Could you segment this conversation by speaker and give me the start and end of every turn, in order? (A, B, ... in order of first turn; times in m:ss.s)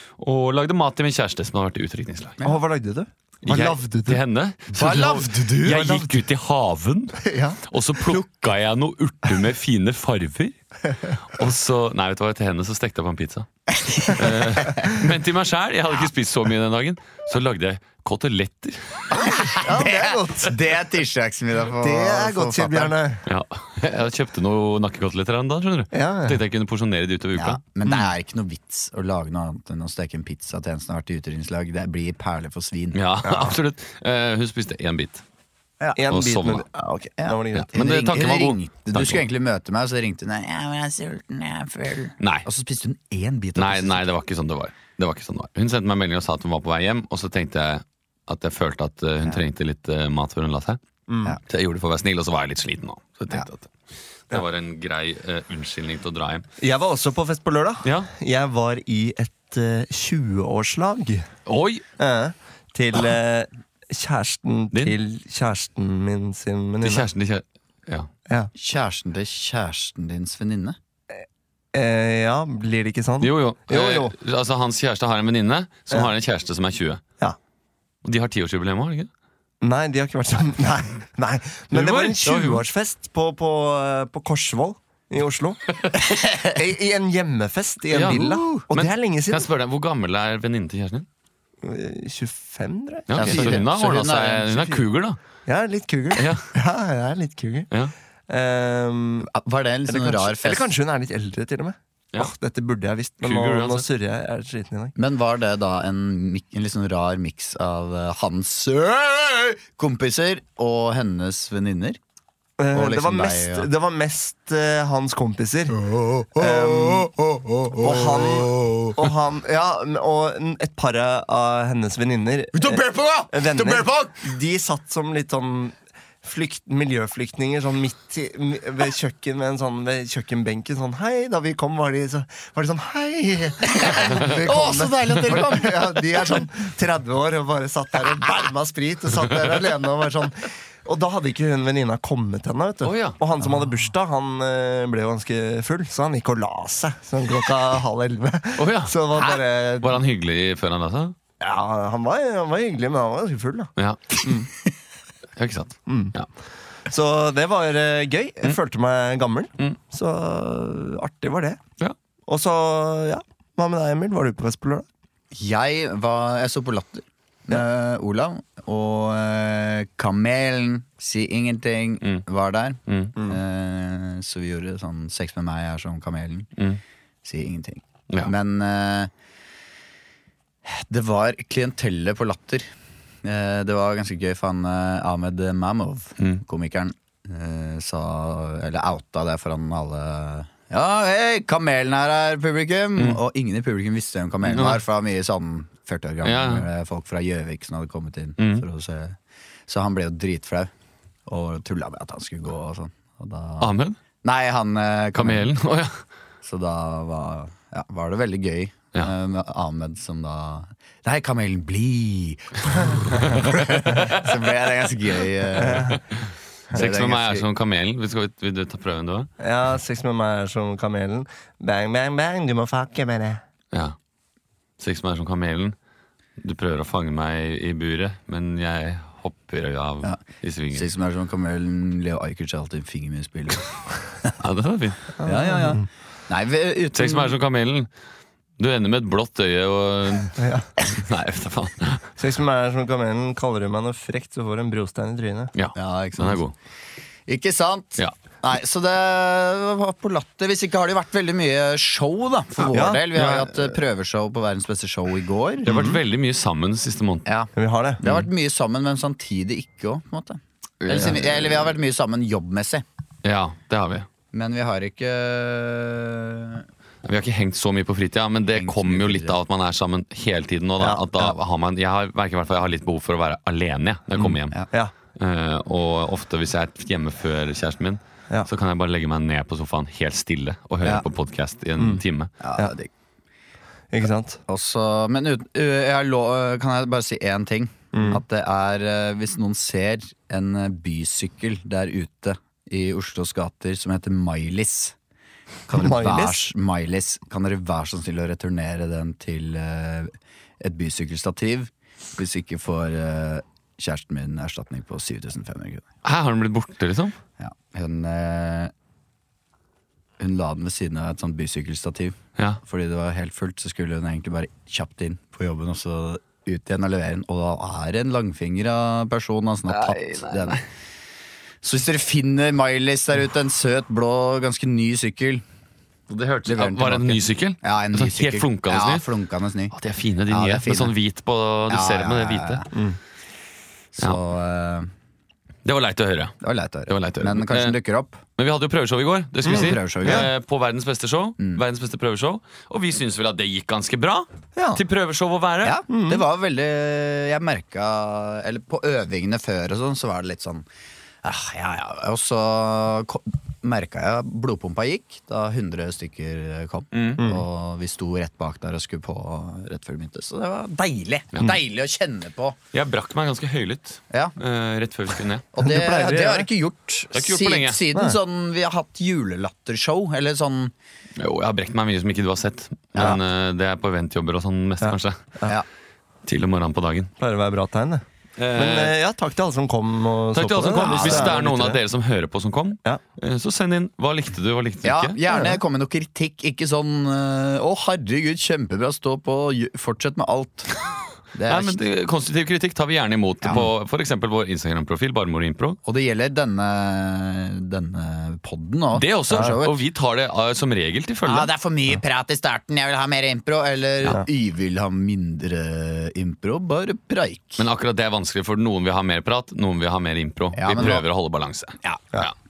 0:00.2-0:02.4 A
0:02.4-0:04.2 B
0:03.4-0:10.6 A
0:04.7-0:06.1 C
0:07.2-0:08.2 B
0:11.2-0:19.5 A
0:19.1-0:22.9 C
0:19.5-0:20.6 B
0:21.8-0:23.2 B
0:23.3-0:28.0 A
0:25.9-0:26.4 B
0:27.4-0:33.4 C
0:32.9-0:35.2 A
0:35.9-0:37.7 B
0:36.1-0:36.6 A
0:37.2-0:44.1 C
0:37.5-0:39.2 A
0:42.2-0:42.4 A
0:43.6-0:50.8 A
0:51.1-0:51.4 B
0:51.5-0:53.7 A
0:54.3-0:56.4 A
0:56.6-1:01.3 B
0:57.8-0:58.1 A
1:01.5-1:01.8 A
1:02.0-1:07.0 B
1:06.8-1:08.1 A
1:08.6-1:10.8 C
1:11.7-1:14.1 B
1:13.2-1:17.0 A
1:18.0-1:19.1 A
1:19.6-1:25.7 B
1:21.7-1:22.6 A
1:26.0-1:26.5 C
1:26.5-1:29.4 B
1:27.9-1:31.0 A
1:28.1-1:28.6 C
1:31.6-1:33.6 B
1:33.1-1:35.2 A
1:33.2-1:34.8 C
1:35.4-1:37.7 B
1:36.1-1:36.5 A
1:38.3-1:39.3 B
1:39.2-1:40.7 C
1:39.9-1:44.9 B
1:43.2-1:43.9 A
1:45.0-1:52.0 C
1:52.6-1:55.8 B
1:52.7-1:53.7 C
1:55.7-1:59.1 C
1:56.4-1:57.1 B
1:57.8-2:30.0 B
2:02.5-2:04.2 C
2:13.7-2:16.4 C
2:22.8-2:23.2 A
2:28.6-2:31.2 A
2:31.4-2:34.5 B
2:33.8-2:34.2 A
2:35.4-2:36.3 A
2:35.9-2:36.1 B
2:36.9-2:41.6 B
2:42.3-2:44.8 B
2:45.3-2:56.5 C
2:52.9-2:53.2 A
2:57.2-2:59.1 C
3:00.6-3:02.7 C
3:03.2-3:20.7 C
3:14.4-3:14.8 A
3:16.2-3:16.7 A
3:18.4-3:18.6 A
3:21.3-3:23.7 C
3:23.6-3:24.0 A
3:24.2-3:25.5 C
3:25.2-3:26.0 A
3:26.4-3:36.0 C
3:33.2-3:34.2 A
3:35.6-3:35.9 B
3:35.9-3:39.3 A
3:36.7-3:37.4 C
3:39.4-3:43.4 B
3:44.8-3:45.8 A
3:46.4-3:50.9 A
3:50.7-3:53.6 C
3:54.4-3:55.1 A
3:55.2-3:55.9 B
3:55.2-3:57.3 C
3:56.9-3:57.9 A
3:58.6-4:02.1 A
4:00.4-4:00.7 B
4:02.2-4:05.5 B
4:05.5-4:06.5 A
4:05.7-4:06.4 C
4:07.3-4:16.0 C
4:12.7-4:13.1 B
4:13.1-4:13.5 A
4:15.6-4:17.2 A
4:17.2-4:22.8 C
4:17.6-4:18.0 B
4:20.8-4:21.6 A
4:23.2-4:24.1 A
4:24.3-4:26.6 C
4:27.0-4:34.6 A
4:28.5-4:29.4 C
4:34.2-4:34.9 B
4:35.2-4:42.3 A
4:41.8-4:42.0 B
4:42.4-4:42.9 C
4:43.9-4:44.4 B
4:44.5-4:54.9 C
4:47.9-4:48.2 B
4:55.7-5:05.8 C
4:55.7-4:56.5 B
5:06.0-5:07.2 A
5:07.4-5:08.7 C
5:10.2-5:20.6 C
5:19.7-5:20.6 A
5:21.6-5:25.4 C
5:26.1-5:29.0 A
5:26.5-5:29.7 C
5:29.7-5:32.6 A
5:30.3-5:30.9 C
5:31.7-5:32.7 C
5:33.9-5:34.9 C
5:35.6-5:36.3 A
5:36.4-5:38.2 C
5:36.9-5:37.8 A
5:38.4-5:45.8 A
5:39.4-5:40.3 B
5:39.5-5:40.3 C
5:41.4-5:41.6 C
5:44.6-5:44.8 B
5:45.6-5:50.6 C
5:45.9-5:46.2 B
5:51.2-6:02.6 C
5:56.9-5:57.2 A
5:57.2-5:57.4 B
6:02.7-6:05.5 A
6:04.1-6:04.4 C
6:05.5-6:10.7 C
6:05.6-6:06.5 B
6:07.1-6:07.8 A
6:11.2-6:15.2 A
6:12.9-6:13.2 C
6:14.8-6:15.5 B
6:16.2-6:17.1 A
6:17.2-6:18.0 B
6:18.4-6:18.9 A
6:18.5-6:21.8 B
6:20.3-6:25.2 A
6:21.0-6:21.4 C
6:24.8-6:30.7 C
6:25.3-6:25.6 B
6:31.3-6:31.8 C
6:31.5-6:35.8 A
6:33.4-6:33.7 C
6:35.8-6:39.8 C
6:38.9-6:41.5 A
6:41.2-6:47.6 C
6:47.6-6:52.3 A
6:50.5-6:51.0 C